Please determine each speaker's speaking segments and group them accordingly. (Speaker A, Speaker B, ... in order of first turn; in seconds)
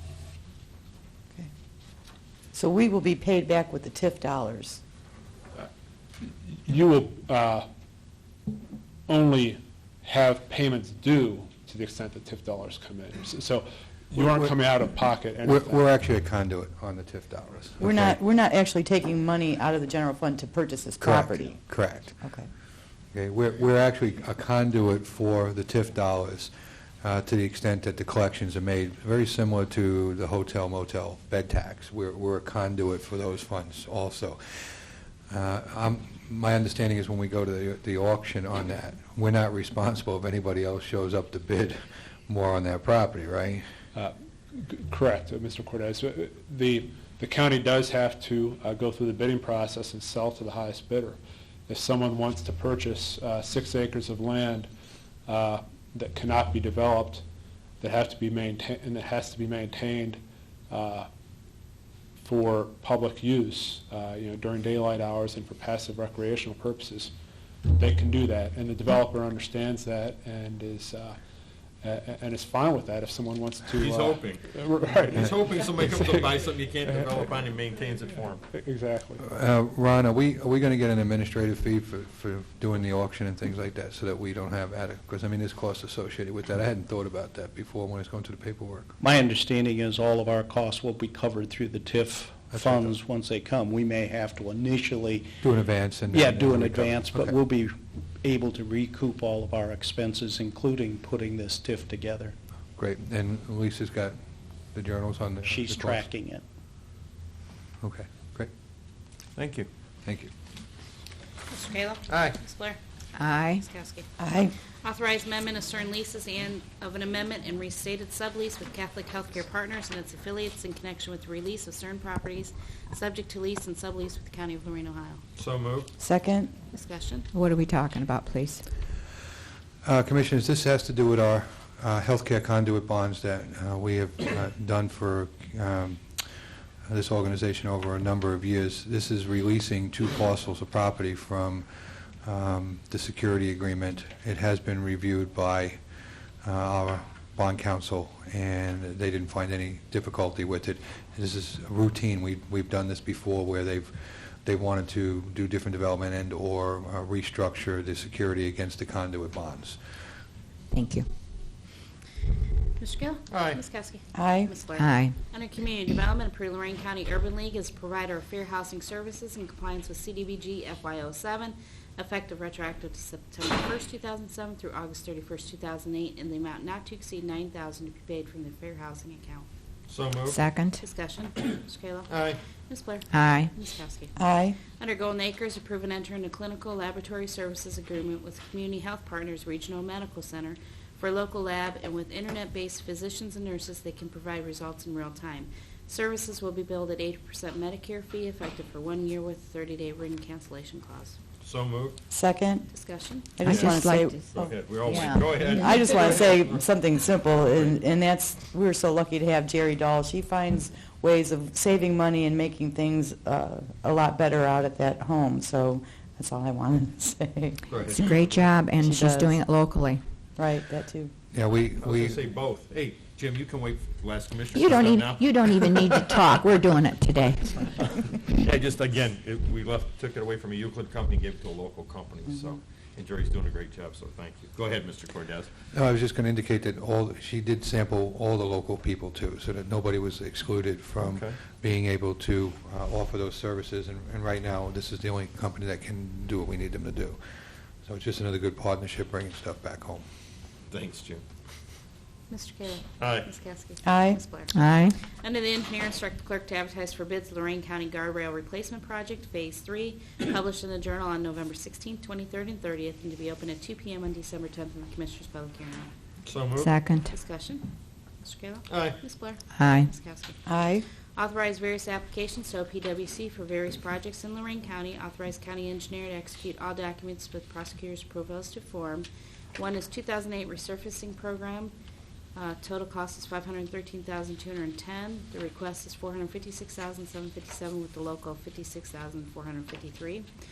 Speaker A: 2.5-4.8, 17.8-22.5, 114.2-114.5, 126.0-126.5, 164.2-164.6, 184.2-184.6, 202.1-202.7, 203.4-204.5, 205.4-219.5, 220.4-221.1, 253.8-254.2, 270.5-270.9
Speaker B: 6.2-7.7, 9.1-15.9, 44.0-54.7, 55.3-57.2, 57.8-61.1, 62.2-67.1, 67.7-71.2, 71.8-77.2, 78.5-79.2
Speaker C: 14.2-14.5, 15.4-18.2, 21.0-22.2, 23.1-43.6, 79.2-88.9, 92.5-92.9, 95.4-97.4, 102.8-104.2, 104.7-106.1, 107.8-108.5, 110.0-110.3, 129.8-145.8, 146.4-159.8, 221.3-222.2, 235.7-247.2, 247.8-250.1
Speaker D: 73.7-74.5, 75.2-78.4, 109.4-109.7, 125.4-125.9, 163.3-163.6, 179.9-180.4, 182.1-182.4, 201.4-202.0, 204.3-206.6, 217.7-218.4, 221.8-226.2, 228.4-235.5, 241.0-241.4, 250.7-251.2, 253.0-253.3, 266.2-266.7, 268.7-269.0
Speaker E: 89.0-95.4, 96.1-102.4, 105.5-106.4
Speaker F: 111.5-112.8, 113.5-114.1, 114.8-125.2, 126.7-127.3, 162.8-179.5, 180.8-184.2, 184.8-201.2, 202.7-203.3, 252.3-254.5, 255.2-265.9, 267.1-267.7, 268.2-270.4, 271.2-281.7, 282.4-290.3
Speaker G: 113.2-113.6, 127.3-128.6, 160.7-161.1, 164.8-165.2, 180.3-180.8, 183.1-183.5, 203.4-204.3, 204.9-205.6, 217.9-220.0, 224.5-227.7, 254.5-255.0, 266.6-267.1, 269.6-269.9